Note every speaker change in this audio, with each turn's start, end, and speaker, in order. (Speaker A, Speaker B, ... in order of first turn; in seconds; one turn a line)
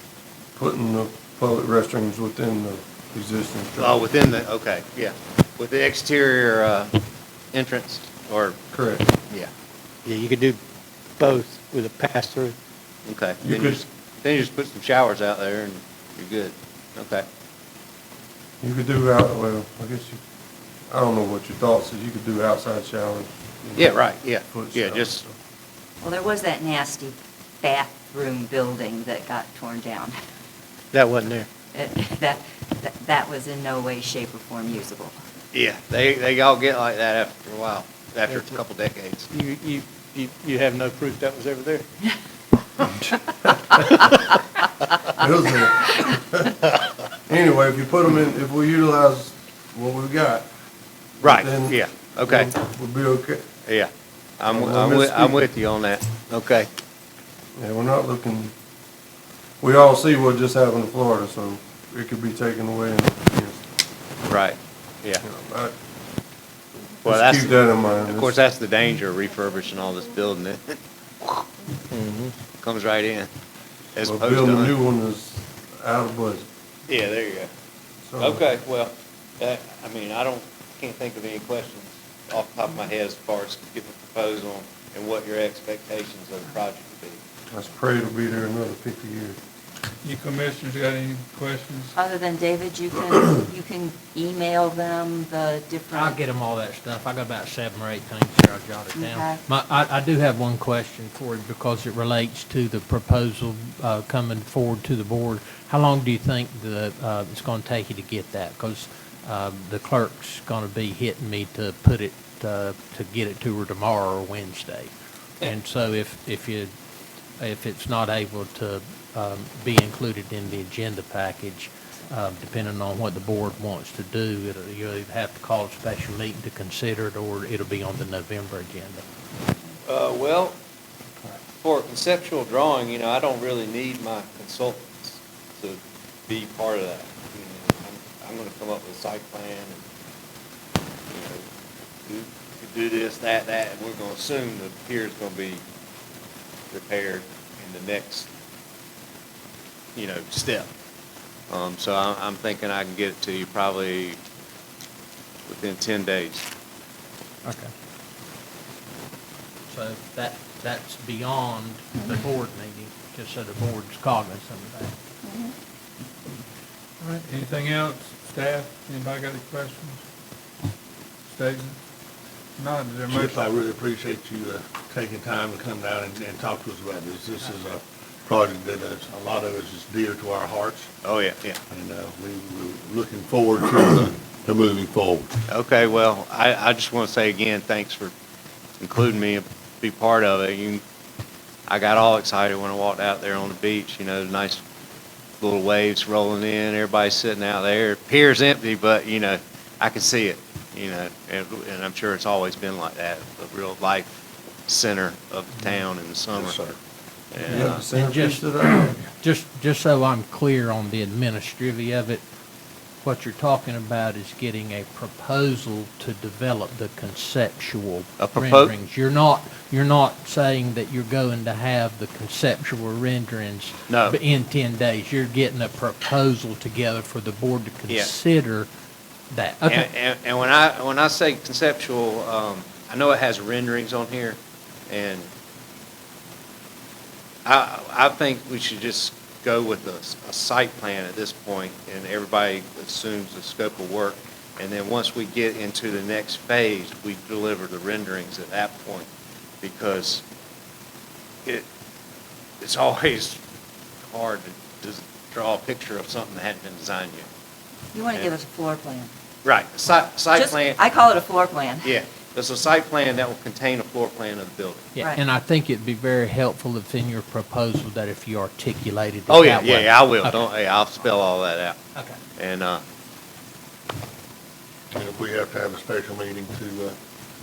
Speaker A: 0.6-4.0
Speaker B: 3.8-7.0
Speaker B: 7.5-8.6
Speaker A: 8.7-9.1
Speaker C: 10.1-10.6
Speaker C: 11.2-12.6
Speaker B: 13.1-17.2
Speaker A: 13.4-13.8
Speaker A: 18.6-20.2
Speaker A: 20.9-25.4
Speaker B: 23.8-25.3
Speaker D: 26.0-30.1
Speaker C: 30.9-31.5
Speaker D: 31.7-35.2
Speaker B: 35.5-39.3
Speaker C: 38.3-38.6
Speaker C: 39.3-41.9
Speaker A: 45.1-46.7
Speaker A: 47.3-50.5
Speaker A: 51.2-53.5
Speaker B: 51.2-52.5
Speaker B: 53.7-56.7
Speaker A: 54.5-55.5
Speaker A: 57.6-58.5
Speaker A: 59.6-63.6
Speaker B: 64.3-65.2
Speaker A: 65.2-65.8
Speaker A: 67.0-68.4
Speaker B: 67.0-71.5
Speaker B: 72.6-73.3
Speaker B: 74.0-74.7
Speaker A: 74.0-76.5
Speaker B: 76.9-77.5
Speaker A: 78.1-78.5
Speaker B: 78.2-87.2
Speaker A: 87.5-89.4
Speaker E: 90.0-91.9
Speaker D: 92.0-96.2
Speaker F: 95.9-116.7
Speaker D: 98.9-99.4
Speaker F: 117.4-129.0
Speaker B: 129.8-130.6
Speaker B: 131.5-139.8
Speaker B: 141.1-141.4
Speaker B: 142.1-145.6
Speaker B: 146.7-148.3
Speaker B: 150.0-150.7
Speaker B: 151.5-154.2
Speaker B: 155.5-156.5
Speaker F: 159.7-164.9
Speaker D: 165.2-165.5
Speaker E: 167.0-170.0
Speaker E: 171.3-171.8
Speaker E: 172.6-173.3
Speaker G: 173.1-180.9
Speaker B: 181.0-181.6
Speaker G: 181.7-185.3
Speaker B: 185.5-188.1
Speaker B: 188.8-190.8
Speaker B: 191.7-194.6
Speaker B: 195.4-204.1
Speaker B: 204.7-206.6
Speaker G: 206.3-206.8
Speaker B: 207.3-207.8
Speaker A: 207.4-209.0
Speaker F: 207.5-212.2
Speaker F: 213.0-228.7
Speaker B: 218.2-218.7
Speaker B: 223.9-224.2
Speaker F: 229.3-229.9
Speaker B: 229.7-235.3
Speaker B: 237.4-249.1
Speaker B: 249.6-250.2
Speaker B: 252.6-253.4
Speaker B: 254.0-257.3
Speaker D: 257.9-259.1
Speaker B: 259.4-260.8
Speaker D: 260.4-261.9
Speaker B: 261.8-265.0
Speaker F: 264.9-270.4
Speaker B: 269.3-271.8
Speaker B: 272.4-272.8
Speaker G: 274.9-276.9